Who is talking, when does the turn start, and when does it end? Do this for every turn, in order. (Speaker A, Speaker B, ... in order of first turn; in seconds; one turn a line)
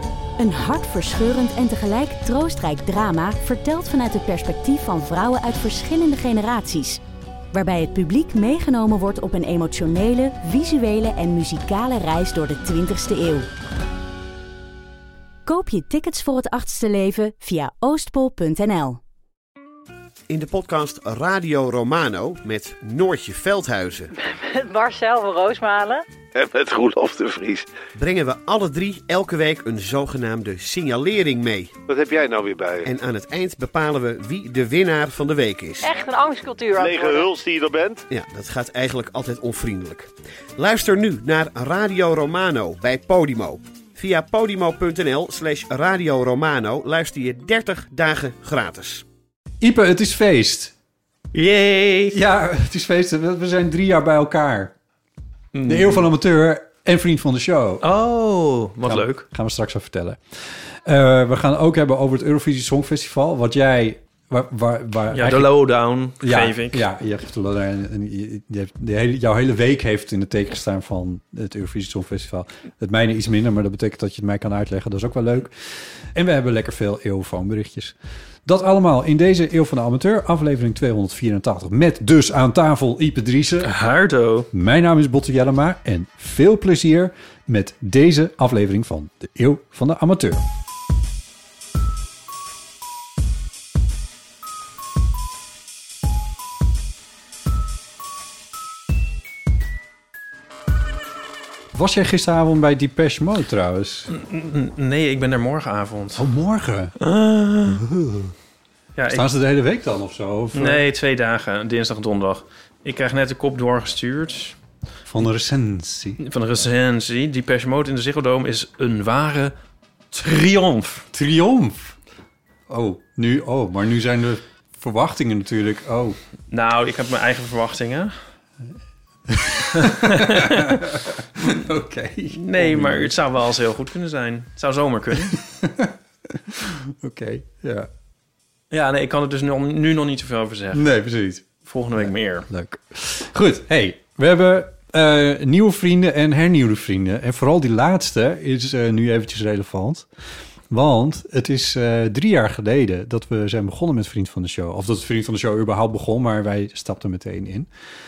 Speaker A: 0.4-7.0
Speaker A: 7.5-13.5
Speaker A: 15.4-19.0
Speaker B: 20.3-24.1
Speaker C: 24.1-26.0
Speaker D: 26.3-27.7
Speaker B: 27.9-31.7
Speaker D: 31.9-32.9
Speaker B: 32.9-35.9
Speaker C: 35.8-37.3
Speaker D: 36.8-38.0
Speaker B: 38.1-49.0
Speaker E: 49.6-50.7
Speaker F: 51.3-52.2
Speaker E: 52.1-54.7
Speaker F: 55.5-56.1
Speaker E: 55.6-57.8
Speaker F: 57.8-59.2
Speaker E: 58.8-65.5
Speaker F: 65.1-66.8
Speaker E: 66.2-83.7
Speaker F: 83.6-84.5
Speaker E: 84.5-90.5
Speaker E: 101.7-104.1
Speaker F: 104.1-106.2
Speaker E: 106.2-106.9
Speaker F: 107.0-107.8
Speaker E: 107.6-108.3
Speaker F: 109.0-109.3
Speaker E: 109.1-110.8
Speaker F: 110.5-114.6
Speaker E: 115.0-116.2
Speaker F: 116.2-119.5
Speaker F: 120.1-121.0
Speaker E: 121.1-122.0
Speaker E: 122.7-126.2
Speaker F: 126.5-128.1
Speaker E: 129.3-133.2
Speaker F: 129.8-130.9
Speaker F: 132.3-135.4
Speaker E: 135.3-137.9
Speaker F: 138.7-140.9
Speaker E: 140.7-141.4
Speaker F: 141.6-142.5
Speaker E: 142.0-150.1
Speaker E: 150.7-157.7